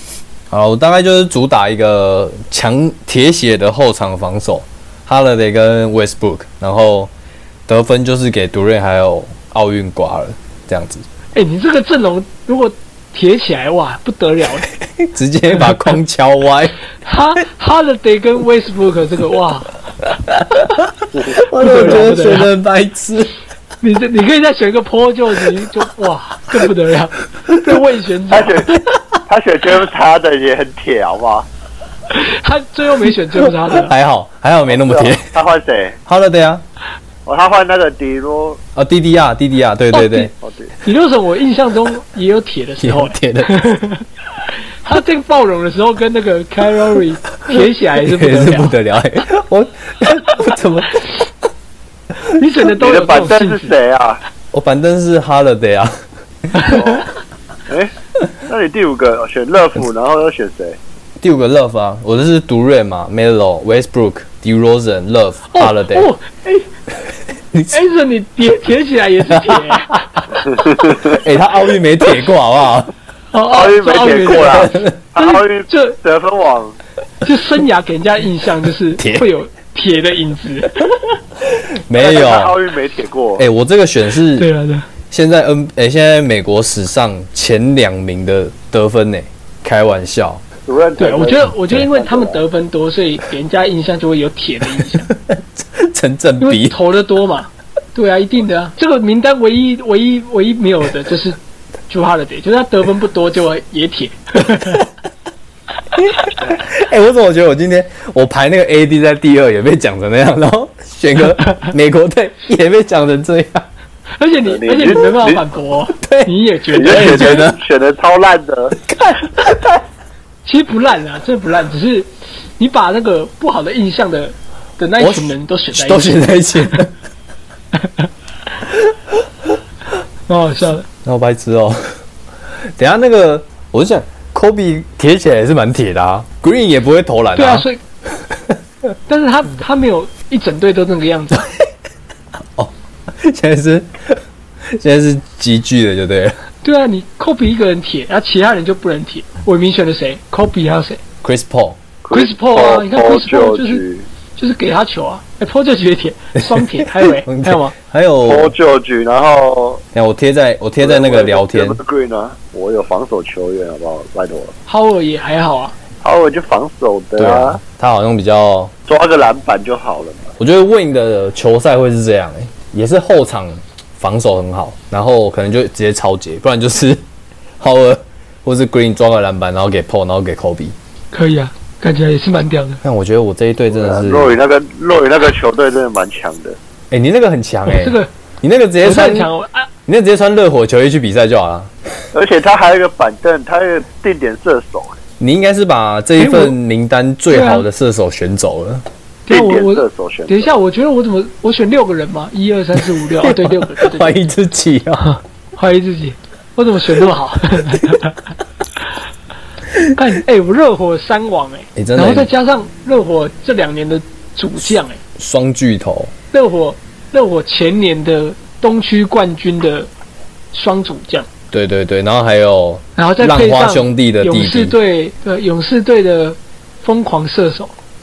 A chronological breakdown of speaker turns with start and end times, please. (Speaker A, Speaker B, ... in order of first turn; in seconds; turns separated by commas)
Speaker A: 0.5-7.1, Speaker A: 7.7-11.1, Speaker B: 11.3-14.7, Speaker A: 15.0-16.8, Speaker B: 17.0-19.7, Speaker A: 20.3-23.3, Speaker C: 21.1-22.1, Speaker B: 21.5-22.5, Speaker B: 23.8-28.9, Speaker C: 28.3-31.5, Speaker B: 32.1-33.9, Speaker A: 33.4-35.2, Speaker C: 34.7-36.0, Speaker A: 36.1-36.6, Speaker C: 37.2-38.6, Speaker A: 38.8-40.3, Speaker B: 39.9-40.3, Speaker C: 40.4-40.7, Speaker B: 40.8-44.0, Speaker A: 42.8-43.6, Speaker B: 44.8-48.7, Speaker A: 47.5-51.0, Speaker B: 52.3-53.7, Speaker C: 52.8-54.2, Speaker A: 54.5-55.9, Speaker B: 56.5-57.0, Speaker C: 56.6-57.0, Speaker C: 57.7-57.9, Speaker C: 58.4-60.8, Speaker A: 61.2-66.1, Speaker B: 65.5-66.7, Speaker A: 67.5-67.8, Speaker B: 67.7-70.5, Speaker A: 69.3-70.0, Speaker C: 70.5-71.2, Speaker A: 71.0-72.9, Speaker B: 73.3-76.0, Speaker C: 73.5-76.8, Speaker A: 74.5-75.0, Speaker B: 77.2-81.2, Speaker A: 79.0-79.2, Speaker A: 81.4-82.6, Speaker C: 81.9-83.4, Speaker A: 83.4-84.5, Speaker B: 84.4-84.9, Speaker A: 85.1-90.4, Speaker C: 90.7-92.4, Speaker B: 91.0-95.1, Speaker A: 94.9-96.8, Speaker B: 96.4-101.4, Speaker B: 101.9-104.8, Speaker A: 104.5-104.8, Speaker A: 105.9-113.7, Speaker B: 114.2-117.4, Speaker C: 114.5-115.4, Speaker A: 116.0-117.6, Speaker C: 116.7-118.8, Speaker A: 118.8-119.8, Speaker B: 120.4-126.8, Speaker A: 125.0-126.9, Speaker B: 127.8-128.1, Speaker A: 128.7-129.1, Speaker B: 130.3-130.8, Speaker A: 131.0-131.9, Speaker A: 132.7-137.7, Speaker B: 137.3-137.8, Speaker A: 138.3-138.6, Speaker B: 139.1-141.4, Speaker A: 141.3-141.6, Speaker A: 142.6-146.3, Speaker B: 146.6-151.0, Speaker A: 151.2-151.8, Speaker C: 152.0-154.1, Speaker B: 152.1-153.8, Speaker B: 154.3-157.7, Speaker A: 156.3-158.5, Speaker C: 158.2-159.8, Speaker A: 159.9-161.8, Speaker C: 160.8-164.5, Speaker B: 164.7-165.7, Speaker C: 166.0-167.6, Speaker A: 167.2-168.7, Speaker C: 168.9-170.3, Speaker A: 170.4-177.0, Speaker A: 177.6-180.7, Speaker B: 181.1-182.8, Speaker A: 182.8-184.4, Speaker C: 183.7-186.6, Speaker A: 186.9-189.3, Speaker B: 187.7-188.1, Speaker B: 188.8-189.7, Speaker A: 189.8-191.7, Speaker C: 192.1-195.0, Speaker A: 195.2-198.8, Speaker B: 196.2-196.5, Speaker B: 197.3-197.7, Speaker B: 199.3-204.2, Speaker C: 199.3-200.5, Speaker A: 203.2-205.1, Speaker B: 205.0-208.2, Speaker B: 209.9-215.0, Speaker A: 211.8-212.3, Speaker A: 215.2-216.1, Speaker B: 216.3-219.9, Speaker B: 220.5-221.3, Speaker A: 221.5-224.7, Speaker B: 223.0-227.7